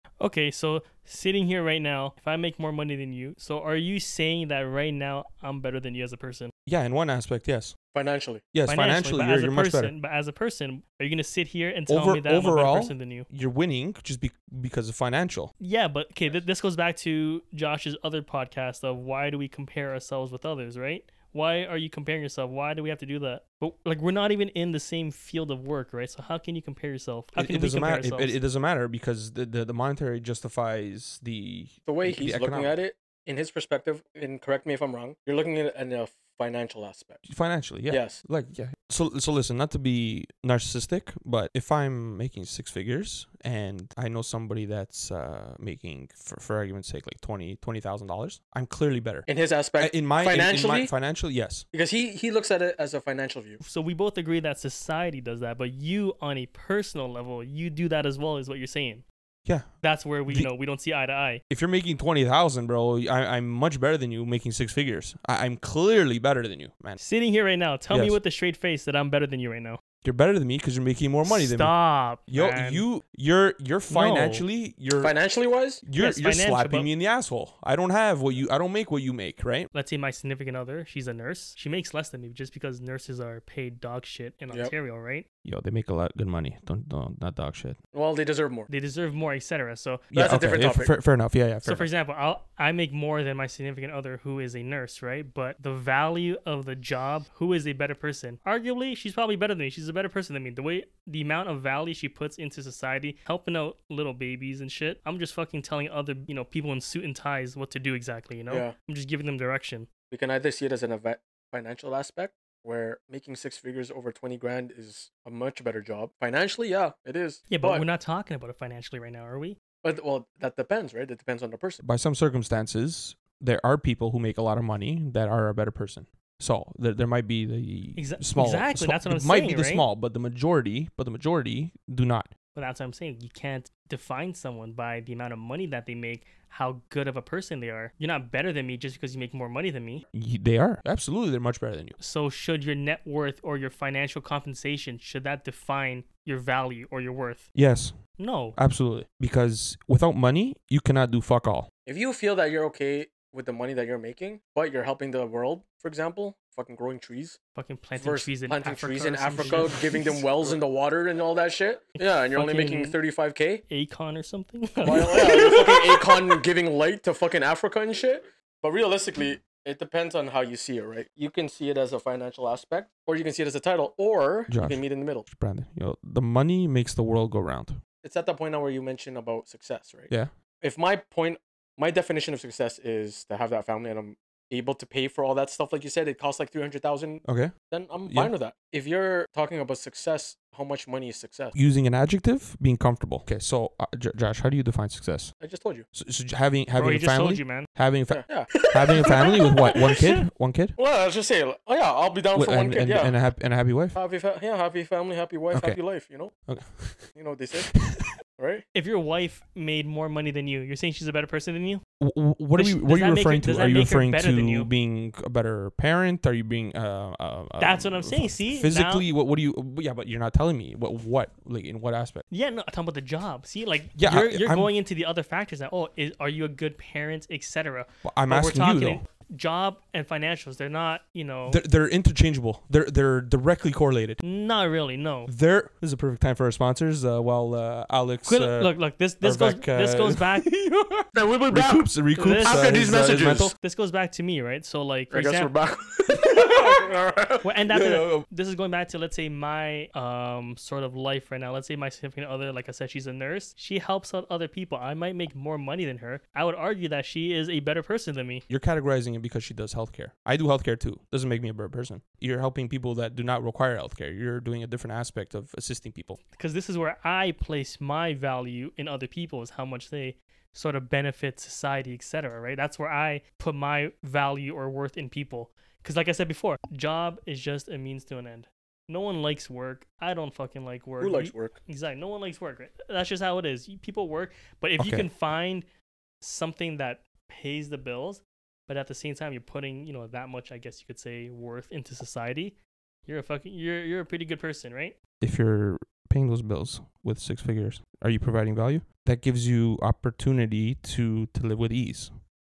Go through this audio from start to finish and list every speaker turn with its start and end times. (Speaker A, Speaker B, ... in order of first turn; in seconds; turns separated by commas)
Speaker A: 0.2-6.5, Speaker B: 6.7-7.8, Speaker C: 7.9-8.5, Speaker B: 8.5-9.9, Speaker A: 8.7-13.3, Speaker B: 11.9-15.5, Speaker A: 15.6-28.4, Speaker B: 27.4-32.8, Speaker C: 31.9-37.3, Speaker B: 37.3-49.3, Speaker C: 37.9-38.2, Speaker C: 49.3-50.9, Speaker B: 49.8-51.6, Speaker C: 51.7-53.6, Speaker A: 53.6-59.0, Speaker B: 59.5-59.7, Speaker A: 59.8-61.4, Speaker B: 61.5-67.0, Speaker A: 67.0-69.8, Speaker B: 67.9-68.2, Speaker B: 70.0-71.8, Speaker A: 71.2-72.8, Speaker B: 72.3-75.2, Speaker A: 73.9-74.4, Speaker C: 75.0-75.8, Speaker B: 75.8-79.7, Speaker A: 76.0-76.9, Speaker A: 79.7-85.3, Speaker B: 85.5-87.8, Speaker C: 87.9-88.7, Speaker A: 88.7-90.1, Speaker B: 90.1-91.9, Speaker C: 90.1-90.9, Speaker A: 91.6-109.9, Speaker C: 108.5-108.7, Speaker C: 110.1-117.8, Speaker A: 117.5-119.6, Speaker C: 119.8-121.8, Speaker B: 121.8-132.3, Speaker A: 128.0-129.9, Speaker A: 132.6-140.1, Speaker B: 140.1-142.0, Speaker A: 142.0-147.5, Speaker B: 147.6-151.7, Speaker A: 148.2-148.6, Speaker C: 151.9-157.4, Speaker A: 157.6-160.6, Speaker C: 158.0-163.6, Speaker A: 162.0-163.0, Speaker A: 163.7-166.4, Speaker C: 164.8-175.3, Speaker B: 174.5-177.8, Speaker C: 178.0-191.6, Speaker B: 187.2-187.5, Speaker B: 188.1-188.3, Speaker B: 191.6-195.3, Speaker C: 195.4-195.9, Speaker B: 195.9-200.8, Speaker A: 196.8-197.7, Speaker C: 198.1-200.2, Speaker C: 200.8-203.2, Speaker B: 202.3-204.0, Speaker C: 203.9-206.3, Speaker B: 205.5-205.8, Speaker B: 206.5-208.1, Speaker C: 207.1-207.8, Speaker C: 208.4-208.7, Speaker A: 208.7-211.8, Speaker B: 212.0-222.2, Speaker A: 212.6-214.7, Speaker A: 217.6-219.1, Speaker A: 222.3-231.6, Speaker B: 224.0-224.7, Speaker B: 228.0-229.0, Speaker B: 231.5-234.2, Speaker A: 234.2-235.3, Speaker B: 235.3-243.5, Speaker A: 238.3-240.5, Speaker C: 241.1-241.9, Speaker A: 242.2-242.8, Speaker C: 242.4-243.5, Speaker A: 243.6-245.5, Speaker C: 245.1-247.5, Speaker B: 246.3-246.8, Speaker A: 247.4-258.4, Speaker B: 247.7-248.2, Speaker B: 258.5-266.2, Speaker A: 266.3-285.6, Speaker C: 281.0-281.6, Speaker B: 284.8-285.1, Speaker A: 286.2-295.0, Speaker B: 295.2-302.1